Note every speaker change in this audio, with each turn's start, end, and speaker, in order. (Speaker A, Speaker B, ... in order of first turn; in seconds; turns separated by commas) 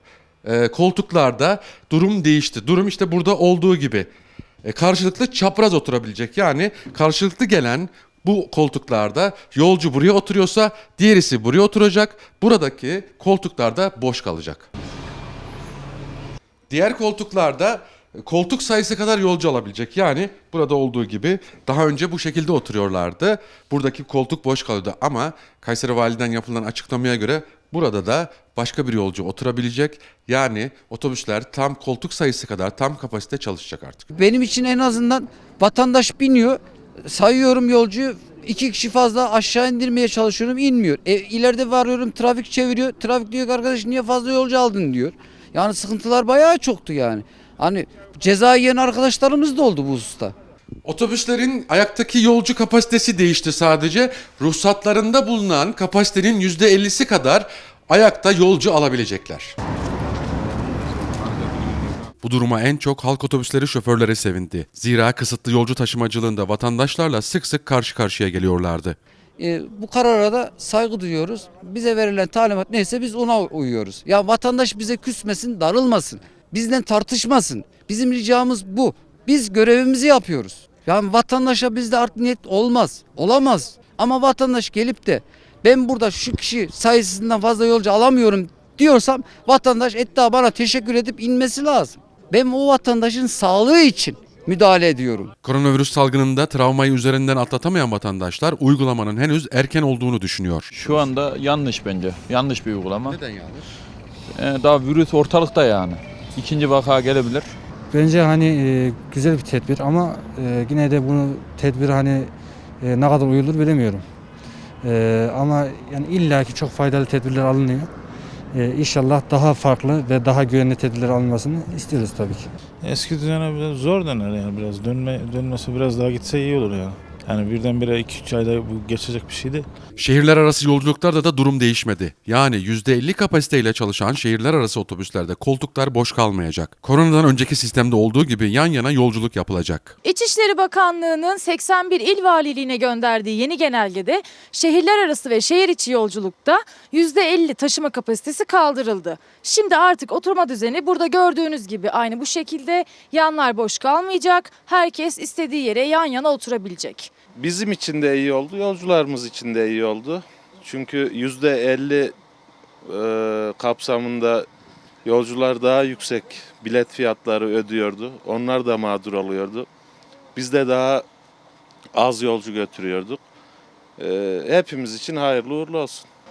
Speaker A: 0.4-4.1, Speaker A: 4.6-14.7, Speaker A: 16.7-34.1, Speaker B: 34.1-50.3, Speaker A: 50.9-59.5, Speaker A: 62.2-69.0, Speaker B: 69.4-95.3, Speaker A: 95.4-100.7, Speaker C: 100.7-103.2, Speaker A: 103.1-103.5, Speaker C: 104.3-107.5, Speaker D: 107.9-114.0, Speaker D: 114.8-117.9, Speaker D: 118.5-122.5, Speaker E: 122.8-129.7, Speaker A: 130.0-139.9, Speaker F: 140.0-157.1, Speaker G: 157.3-162.1, Speaker G: 162.8-164.5, Speaker G: 165.0-169.7, Speaker G: 170.3-171.1, Speaker G: 171.9-173.2, Speaker G: 174.0-176.1